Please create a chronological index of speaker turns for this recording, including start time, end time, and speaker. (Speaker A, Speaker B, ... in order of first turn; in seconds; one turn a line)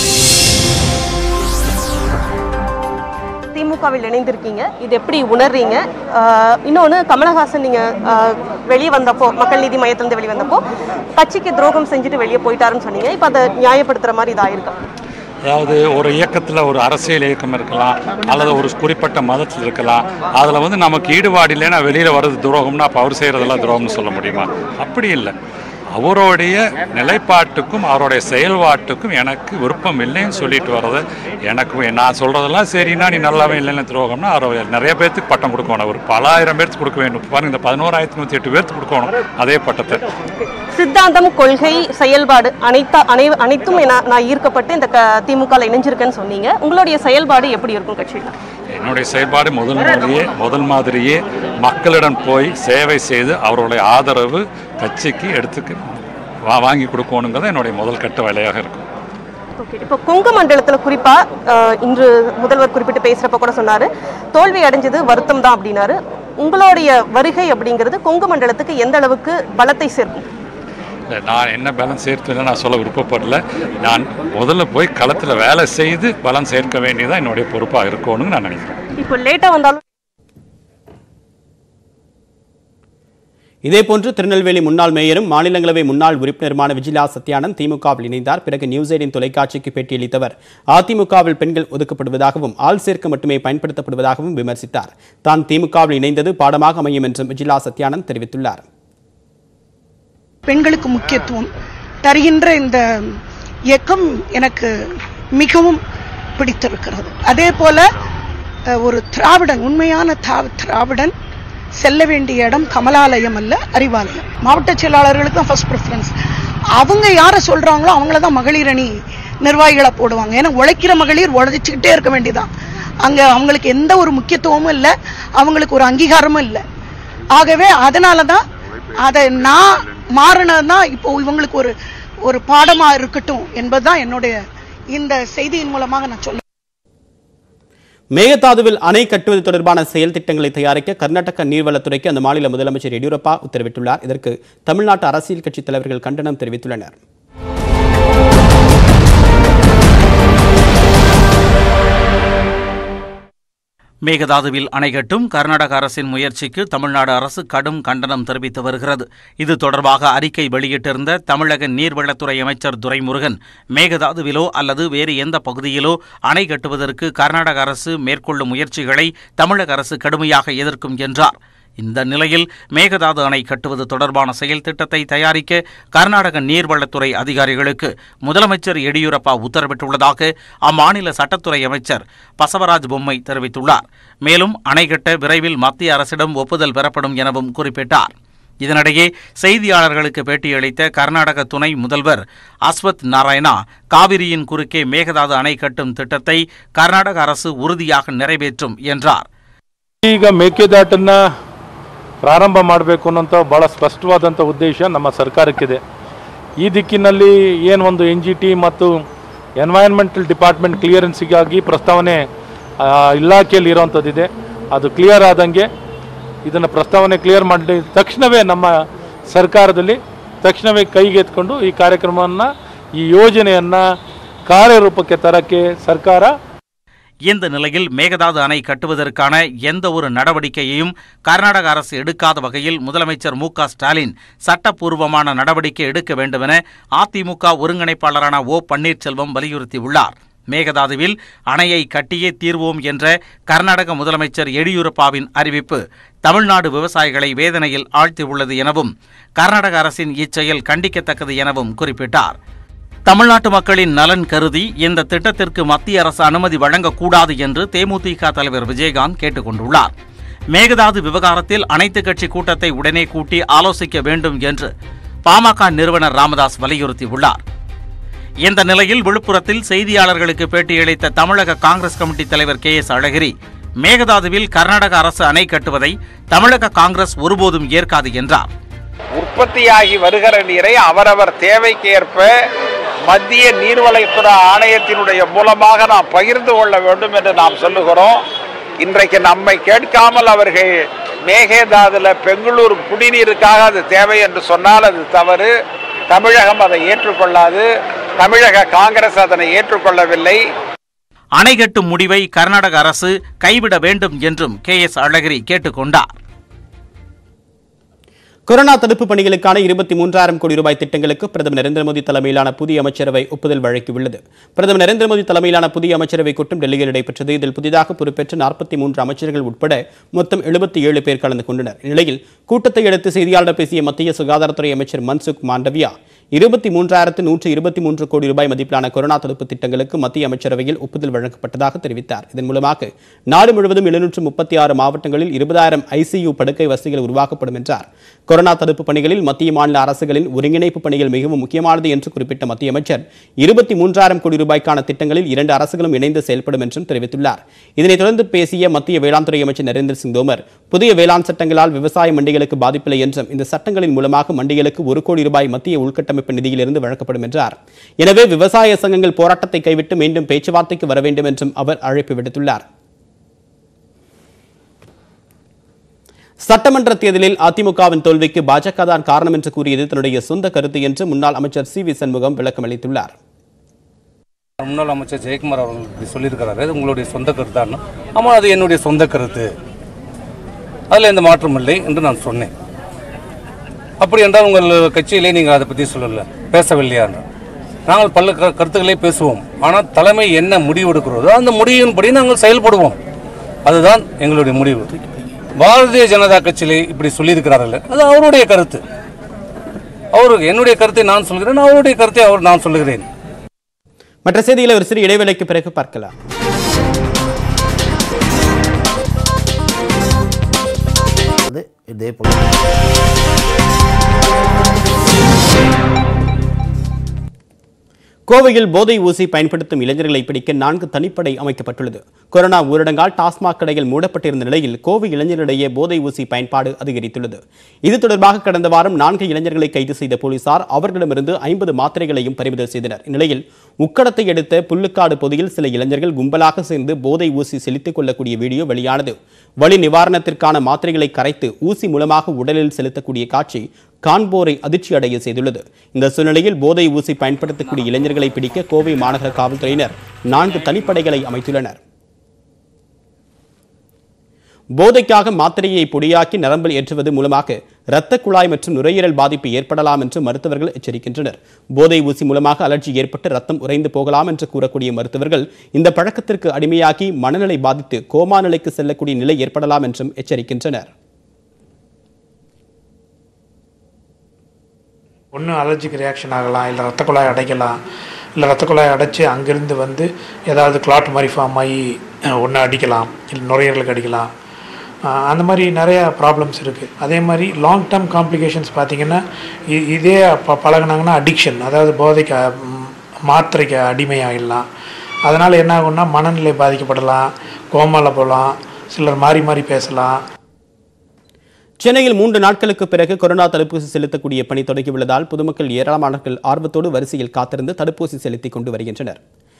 Speaker A: 3.5-10.6
Speaker A: 11.2-14.7
Speaker B: 15.4-25.3
Speaker B: 25.9-40.0
Speaker A: 40.8-48.3
Speaker B: 48.8-55.8
Speaker B: 56.5-58.9
Speaker A: 59.6-70.2
Speaker B: 71.2-78.8
Speaker A: 79.0-79.8
Speaker C: 83.6-98.6
Speaker D: 100.5-101.5
Speaker D: 102.0-102.8
Speaker D: 103.7-104.7
Speaker D: 105.4-105.8
Speaker D: 106.4-107.8
Speaker D: 108.8-111.1
Speaker D: 111.8-116.1
Speaker D: 116.8-118.9
Speaker D: 119.4-122.5
Speaker D: 123.0-126.6
Speaker D: 127.3-128.4
Speaker D: 129.0-131.7
Speaker D: 132.2-134.4
Speaker D: 134.9-136.4
Speaker C: 138.2-146.9
Speaker E: 154.1-199.3
Speaker F: 200.1-201.2
Speaker F: 202.2-205.8
Speaker F: 206.6-209.0
Speaker F: 209.6-212.3
Speaker F: 212.8-215.7
Speaker F: 216.4-223.8
Speaker F: 224.5-226.3
Speaker E: 227.3-252.4
Speaker E: 253.1-259.9
Speaker E: 260.5-264.7
Speaker E: 265.3-267.4
Speaker E: 268.4-278.5
Speaker G: 279.2-282.3
Speaker G: 283.1-288.2
Speaker G: 288.8-290.7
Speaker G: 291.3-295.5
Speaker G: 296.1-297.6
Speaker G: 298.2-300.4
Speaker E: 301.4-306.1
Speaker C: 308.5-362.6
Speaker C: 366.4-373.1
Speaker H: 374.6-379.5
Speaker H: 380.9-382.5
Speaker H: 384.0-387.2
Speaker H: 387.9-393.0
Speaker H: 393.7-394.9
Speaker H: 395.6-398.8
Speaker H: 400.1-403.1
Speaker C: 404.3-406.1
Speaker C: 418.3-451.8
Speaker C: 454.8-470.9
Speaker I: 475.4-477.7
Speaker I: 478.4-481.7
Speaker I: 482.5-484.3
Speaker I: 485.3-489.2
Speaker I: 490.0-492.4
Speaker I: 493.3-494.6
Speaker I: 495.3-497.2
Speaker I: 497.8-500.1
Speaker C: 501.8-509.2